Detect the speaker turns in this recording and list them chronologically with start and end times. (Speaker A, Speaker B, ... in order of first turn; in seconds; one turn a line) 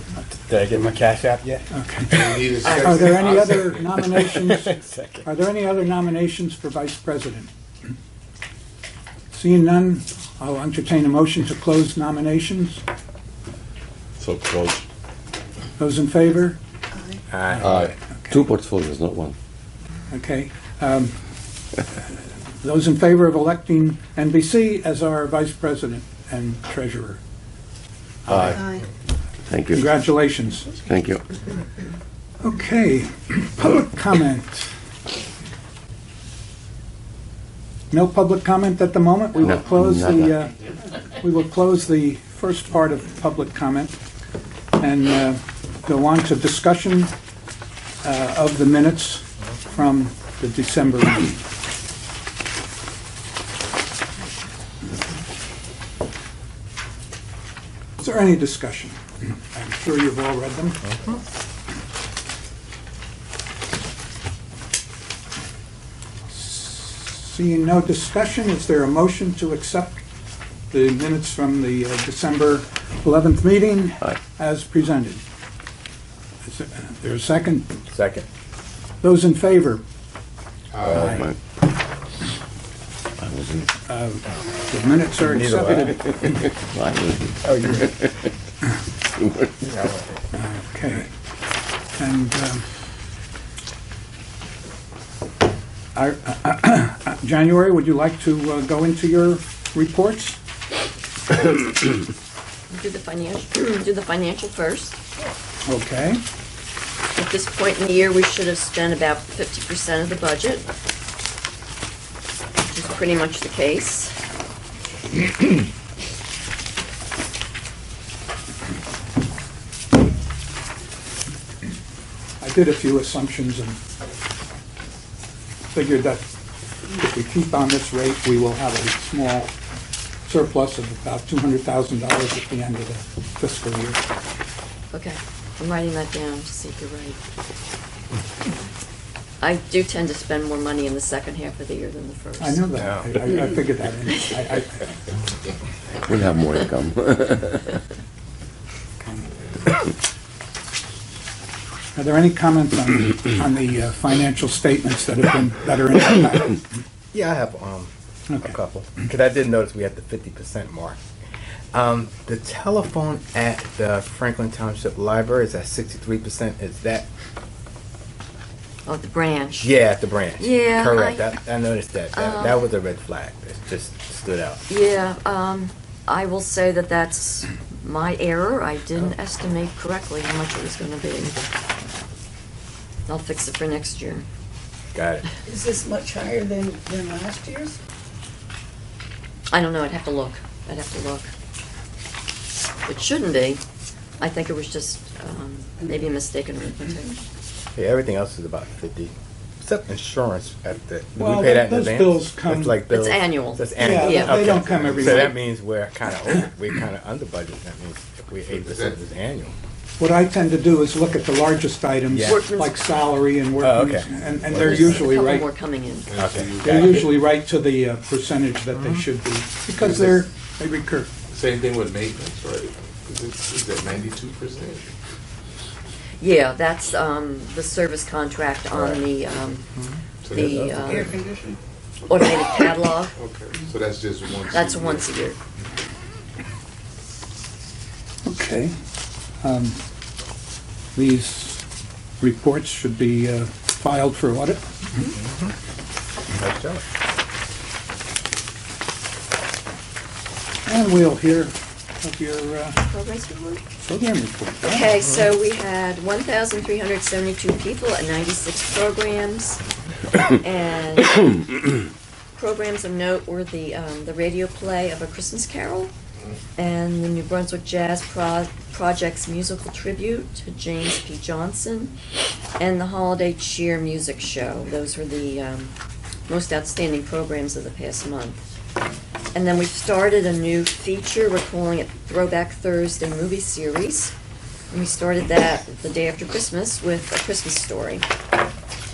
Speaker A: 0.2-5.3
Speaker B: 1.7-2.1
Speaker C: 2.2-3.9
Speaker D: 2.6-3.0
Speaker B: 2.8-7.5
Speaker B: 9.3-12.8
Speaker C: 14.2-14.9
Speaker B: 15.8-16.6
Speaker E: 16.9-17.2
Speaker A: 17.3-17.8
Speaker B: 17.5-18.4
Speaker F: 17.6-19.3
Speaker B: 20.1-21.2
Speaker B: 22.6-27.2
Speaker B: 28.3-28.8
Speaker E: 28.5-28.8
Speaker F: 29.5-29.9
Speaker B: 29.7-30.8
Speaker F: 30.9-31.2
Speaker B: 32.4-34.7
Speaker B: 37.9-44.0
Speaker F: 39.4-40.4
Speaker B: 44.8-47.1
Speaker B: 48.0-51.4
Speaker B: 58.0-60.9
Speaker B: 66.3-70.0
Speaker B: 70.7-75.2
Speaker B: 76.4-77.7
Speaker A: 77.9-78.3
Speaker B: 79.0-79.8
Speaker C: 80.7-81.0
Speaker B: 80.9-81.3
Speaker F: 81.0-81.4
Speaker F: 83.2-83.7
Speaker B: 83.9-86.3
Speaker A: 85.2-86.0
Speaker F: 86.3-87.9
Speaker A: 87.4-87.9
Speaker A: 89.6-90.2
Speaker B: 90.3-91.1
Speaker B: 92.0-92.7
Speaker B: 96.0-100.4
Speaker D: 102.7-105.0
Speaker B: 105.7-106.2
Speaker D: 107.2-110.7
Speaker D: 112.6-114.1
Speaker B: 122.4-123.8
Speaker B: 125.7-126.3
Speaker B: 126.8-129.5
Speaker B: 130.3-134.0
Speaker D: 134.9-137.2
Speaker D: 139.4-142.7
Speaker B: 142.4-144.9
Speaker A: 142.8-143.2
Speaker F: 146.1-147.8
Speaker B: 151.9-156.8
Speaker A: 157.1-161.0
Speaker B: 158.3-158.6
Speaker A: 161.7-167.1
Speaker D: 168.9-169.7
Speaker A: 169.6-174.6
Speaker D: 170.4-171.3
Speaker D: 172.1-172.7
Speaker D: 174.7-181.4
Speaker D: 183.1-184.3
Speaker A: 184.9-185.3
Speaker E: 185.5-187.8
Speaker D: 189.5-191.3
Speaker D: 192.9-193.6
Speaker D: 194.2-197.2
Speaker A: 197.8-209.6
Speaker B: 201.2-202.8
Speaker D: 202.9-204.4
Speaker B: 203.8-205.4
Speaker C: 208.6-209.0
Speaker B: 210.0-215.5
Speaker A: 212.1-212.4
Speaker D: 212.2-212.8
Speaker A: 213.6-215.1
Speaker D: 214.5-216.2
Speaker C: 216.1-217.2
Speaker A: 216.2-216.9
Speaker B: 216.6-221.1
Speaker A: 218.7-219.1
Speaker C: 219.8-220.2
Speaker C: 221.3-224.9
Speaker D: 226.2-229.7
Speaker C: 230.2-231.1
Speaker D: 230.3-231.2
Speaker E: 230.8-231.6
Speaker D: 232.1-233.1
Speaker C: 233.2-235.2
Speaker D: 234.5-235.4
Speaker B: 238.2-238.8
Speaker B: 239.4-239.8
Speaker B: 240.9-241.6
Speaker B: 242.2-244.7
Speaker A: 245.2-245.5
Speaker A: 246.3-246.8
Speaker B: 250.7-252.8
Speaker D: 252.8-253.6
Speaker B: 253.8-254.9
Speaker D: 254.6-259.6
Speaker A: 255.0-255.3
Speaker D: 260.3-261.4
Speaker D: 262.4-265.9
Speaker D: 266.6-271.9
Speaker D: 272.6-275.7
Speaker D: 276.3-278.4
Speaker D: 279.3-284.1
Speaker D: 284.7-288.1